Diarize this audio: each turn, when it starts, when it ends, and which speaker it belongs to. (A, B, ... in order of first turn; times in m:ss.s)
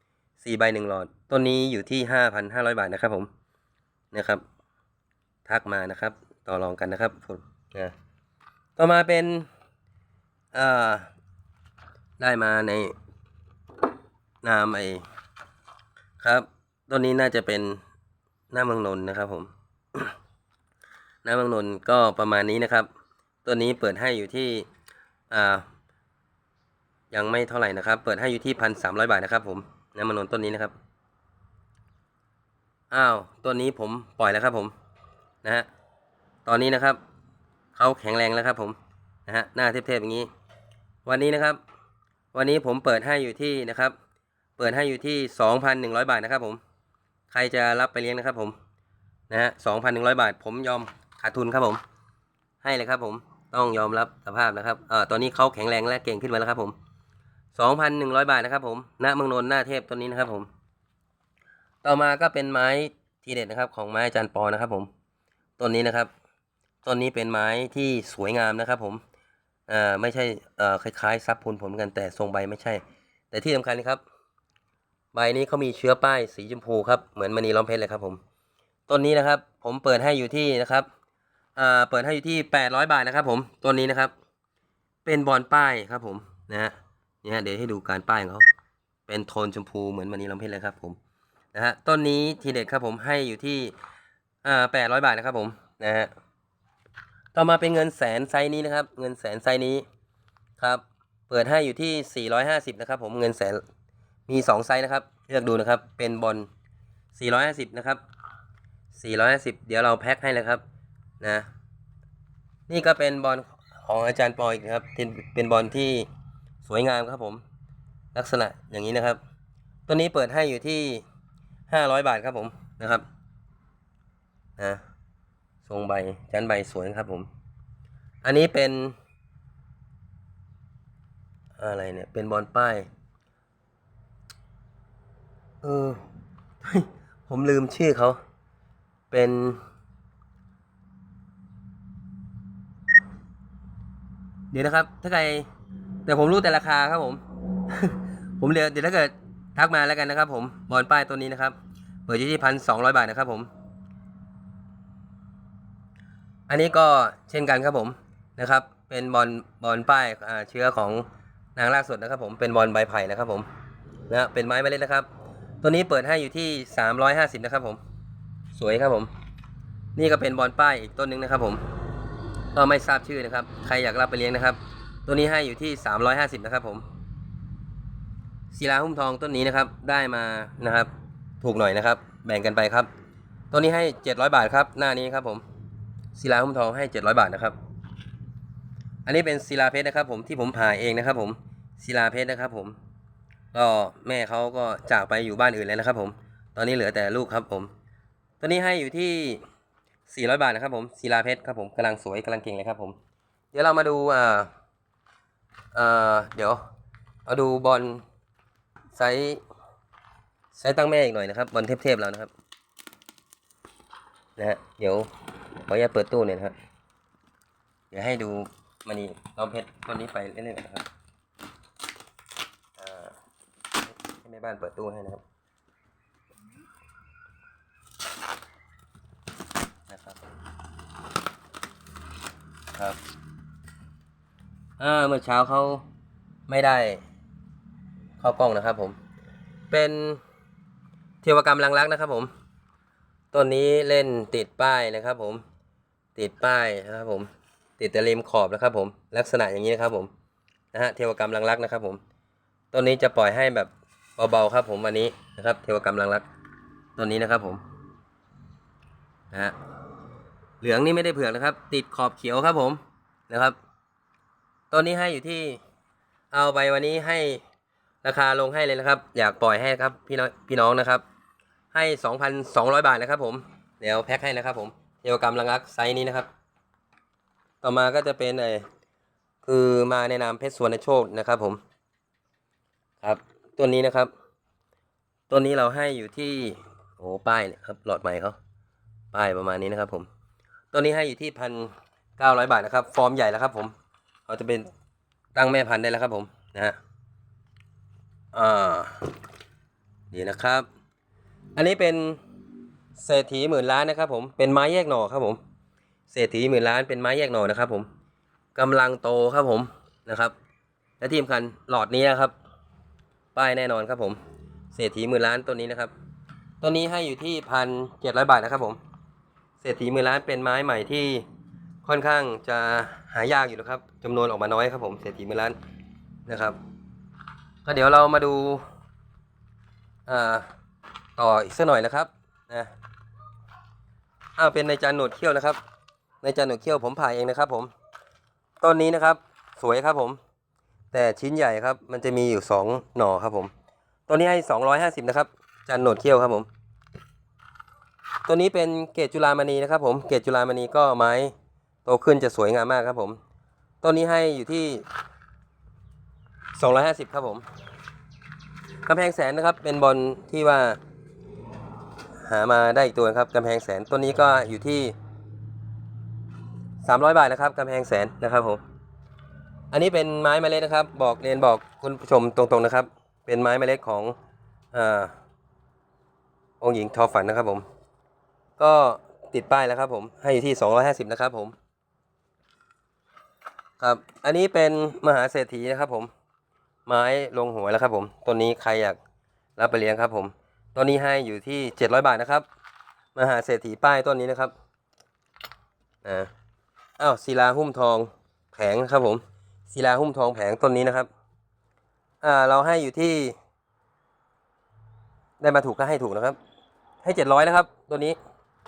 0:00.4-0:03.3 A
0:04.1-0:04.4 A
0:05.5-0:07.9 A
0:08.8-0:09.5 A
0:10.5-0:11.1 A
0:12.2-0:12.9 A
0:14.4-0:15.0 A
0:16.2-0:17.8 A
0:18.5-0:20.1 A
0:21.2-0:22.9 A
0:23.4-0:24.7 A
0:25.3-0:25.7 A
0:27.1-0:30.8 A
0:32.9-0:34.7 A
0:36.5-0:37.0 A
0:37.8-0:40.3 A
0:41.0-0:41.6 A
0:42.3-0:44.0 A
0:44.6-0:46.6 A
0:47.3-0:48.6 A
0:49.3-0:51.8 A
0:52.6-0:56.8 A
0:57.6-1:00.5 A
1:01.8-1:04.9 A
1:05.6-1:06.1 A
1:06.8-1:09.0 A
1:09.7-1:14.0 A
1:15.1-1:18.2 A
1:18.9-1:20.9 A
1:21.6-1:24.1 A
1:25.0-1:28.5 A
1:29.1-1:31.0 A
1:31.5-1:33.7 A
1:34.4-1:36.1 A
1:37.3-1:39.8 A
1:40.6-1:43.6 A
1:44.3-1:46.5 A
1:47.2-1:48.0 A
1:48.9-1:50.6 A
1:51.2-1:51.5 A
1:52.7-1:56.1 A
1:56.6-1:57.4 A
1:58.1-1:59.2 A
1:59.9-2:01.0 A
2:01.7-2:03.0 A
2:05.7-2:07.3 A
2:08.2-2:09.0 A
2:11.6-2:12.9 A
2:15.6-2:16.0 A
2:16.6-2:18.2 A
2:19.1-2:19.6 A
2:24.5-2:25.5 A
2:26.1-2:31.6 A
2:32.1-2:33.5 A
2:36.5-2:41.0 A
2:41.6-2:43.5 A
2:44.1-2:45.1 A
2:45.6-2:47.8 A
2:48.5-2:49.1 A
2:50.0-2:51.6 A
2:52.5-2:56.8 A
2:58.5-3:00.9 A
3:01.4-3:02.9 A
3:03.5-3:05.4 A
3:06.1-3:07.6 A
3:09.0-3:12.8 A
3:13.5-3:17.7 A
3:18.4-3:19.4 A
3:20.1-3:23.0 A
3:23.5-3:24.5 A
3:25.7-3:26.6 A
3:27.3-3:28.0 A
3:28.9-3:29.4 A
3:30.5-3:32.3 A
3:34.4-3:36.6 A
3:37.9-3:40.9 A
3:42.8-3:43.1 A
3:44.1-3:45.2 A
3:49.9-3:50.2 A
3:54.8-3:55.8 A
3:56.5-3:57.0 A
3:58.2-3:59.0 A
3:59.7-4:00.2 A
4:01.2-4:02.3 A
4:03.3-4:05.4 A
4:06.2-4:10.1 A
4:10.7-4:12.0 A
4:12.7-4:16.2 A
4:17.0-4:17.6 A
4:20.6-4:23.6 A
4:24.7-4:25.6 A
4:26.3-4:27.4 A
4:28.0-4:31.0 A
4:31.7-4:36.3 A
4:37.6-4:38.6 A
4:39.4-4:41.6 A
4:43.0-4:44.1 A
4:45.3-4:48.4 A
4:49.1-4:50.1 A
4:50.7-4:53.7 A
4:54.3-4:54.7 A
4:55.4-4:56.8 A
4:58.3-4:59.1 A
5:00.1-5:00.7 A
5:01.6-5:02.2 A
5:03.0-5:05.4 A
5:06.1-5:07.9 A
5:08.6-5:10.4 A
5:11.0-5:12.3 A
5:13.4-5:14.2 A
5:14.7-5:15.9 A
5:16.6-5:18.8 A
5:19.6-5:21.2 A
5:21.8-5:25.6 A
5:26.3-5:26.6 A
5:27.6-5:28.6 A
5:30.1-5:30.5 A
5:31.2-5:32.7 A
5:34.4-5:35.6 A
5:36.2-5:37.7 A
5:38.6-5:40.2 A
5:40.9-5:43.5 A
5:44.1-5:46.5 A
5:48.3-5:51.3 A
5:51.8-5:53.2 A
5:53.8-5:54.8 A
5:56.6-5:57.4 A
5:58.9-6:00.8 A
6:02.2-6:04.9 A
6:06.8-6:08.6 A
6:09.7-6:14.1 A
6:14.7-6:15.1 A
6:16.6-6:17.6 A
6:18.6-6:21.5 A
6:23.8-6:26.1 A
6:26.9-6:29.0 A
6:29.6-6:32.4 A
6:33.2-6:34.5 A
6:36.0-6:36.3 A
6:37.0-6:41.1 A
6:42.2-6:43.4 A
6:45.4-6:46.4 A
6:47.0-6:48.2 A